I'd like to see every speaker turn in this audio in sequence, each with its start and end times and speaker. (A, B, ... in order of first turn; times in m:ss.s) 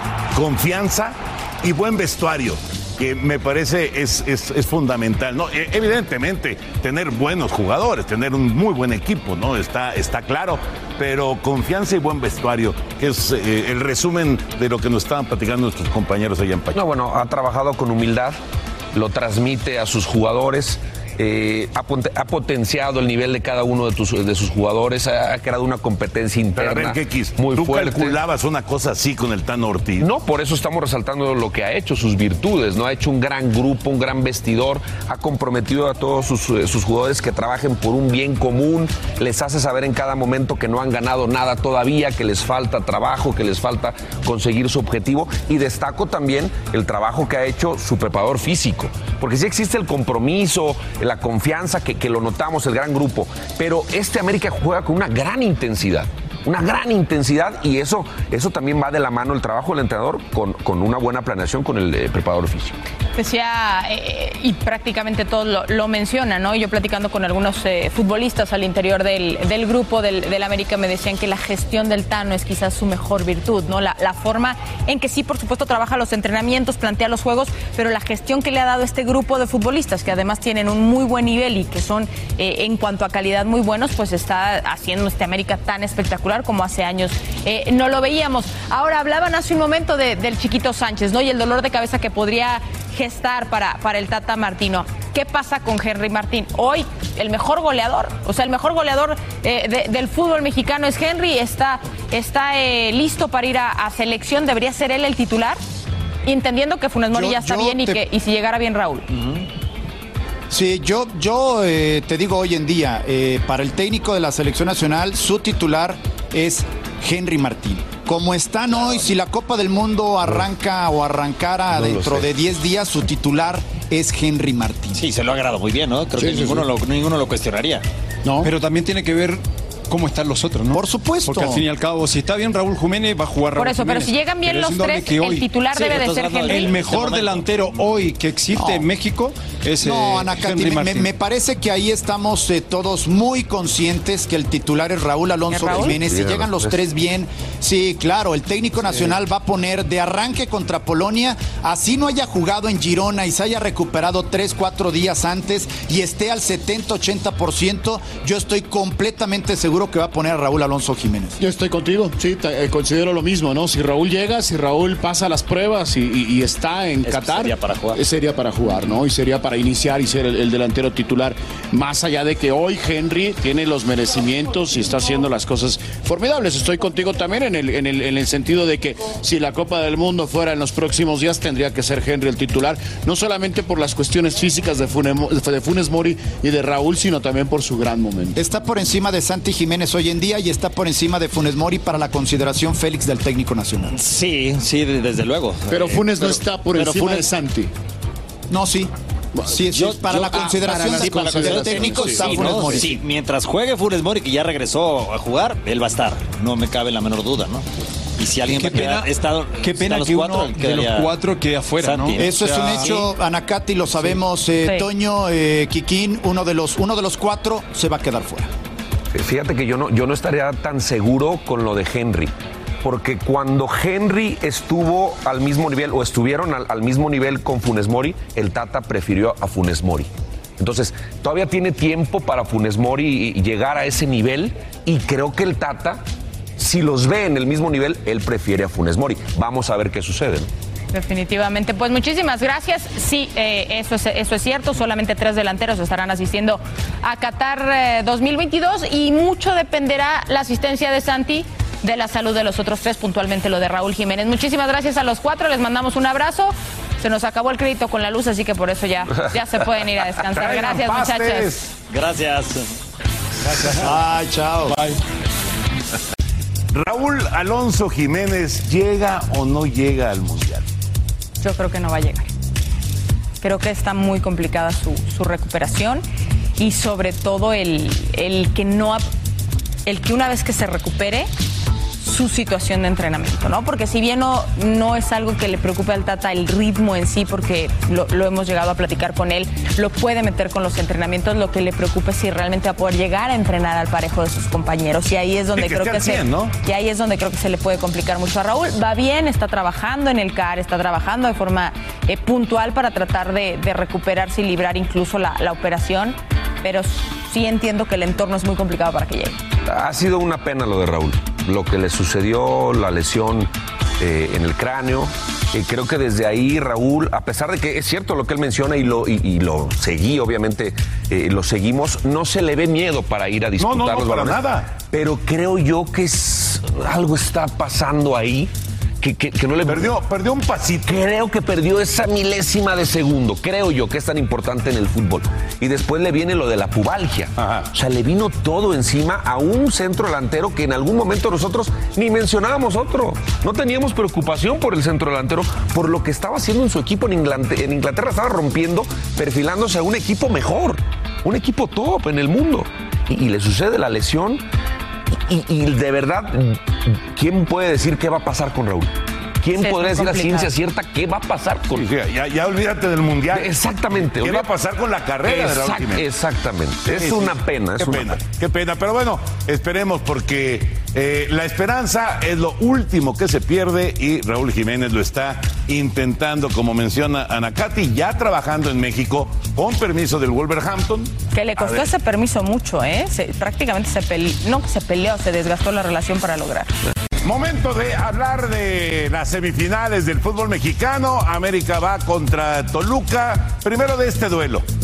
0:00.3-0:16.8 A
0:16.7-0:18.4 B
0:18.9-0:28.2 B
0:26.6-0:30.0 A
0:30.0-1:02.8 B
1:03.1-1:45.6 C
1:46.2-1:49.1 C
1:47.1-1:48.0 D
1:50.5-2:05.0 D
2:01.7-2:02.3 B
2:04.9-2:07.8 E
2:06.2-2:06.6 F
2:08.2-2:08.5 F
2:08.4-2:15.5 G
2:10.7-2:11.6 D
2:13.6-2:16.7 C
2:15.7-2:17.8 E
2:16.4-2:21.1 G
2:18.5-2:18.9 D
2:19.8-2:41.4 D
2:25.5-2:26.0 C
2:25.9-2:26.8 B
2:41.4-3:08.4 F
2:47.0-2:48.0 E
3:08.4-3:14.0 D
3:13.9-3:17.2 E
3:15.7-3:17.7 F
3:18.5-3:18.9 D
3:19.5-3:23.0 D
3:19.7-3:27.6 E
3:21.3-3:22.5 F
3:28.2-3:31.2 E
3:28.4-3:33.1 G
3:31.8-3:33.1 E
3:32.1-3:38.5 D
3:39.1-3:56.0 B
3:56.6-4:00.5 B
4:00.9-4:21.5 C
4:20.3-4:21.7 A
4:21.9-4:22.7 E
4:23.5-4:24.0 E
4:23.7-4:24.8 D
4:26.7-4:30.6 A
4:31.4-4:32.3 C
4:33.4-4:36.0 C
4:36.6-4:39.0 C
4:39.8-4:41.3 C
4:42.0-5:09.4 C
4:55.6-4:56.5 A
5:09.6-5:29.9 B
5:23.6-5:24.7 A
5:29.6-5:31.0 A
5:30.9-5:54.4 B
5:37.4-5:37.6 A
5:55.3-6:01.8 B
5:59.5-6:00.5 C
6:01.8-6:06.0 A
6:03.3-6:04.5 B
6:05.2-6:08.2 B
6:06.9-6:21.9 A
6:21.3-6:26.7 C
6:27.2-6:34.6 A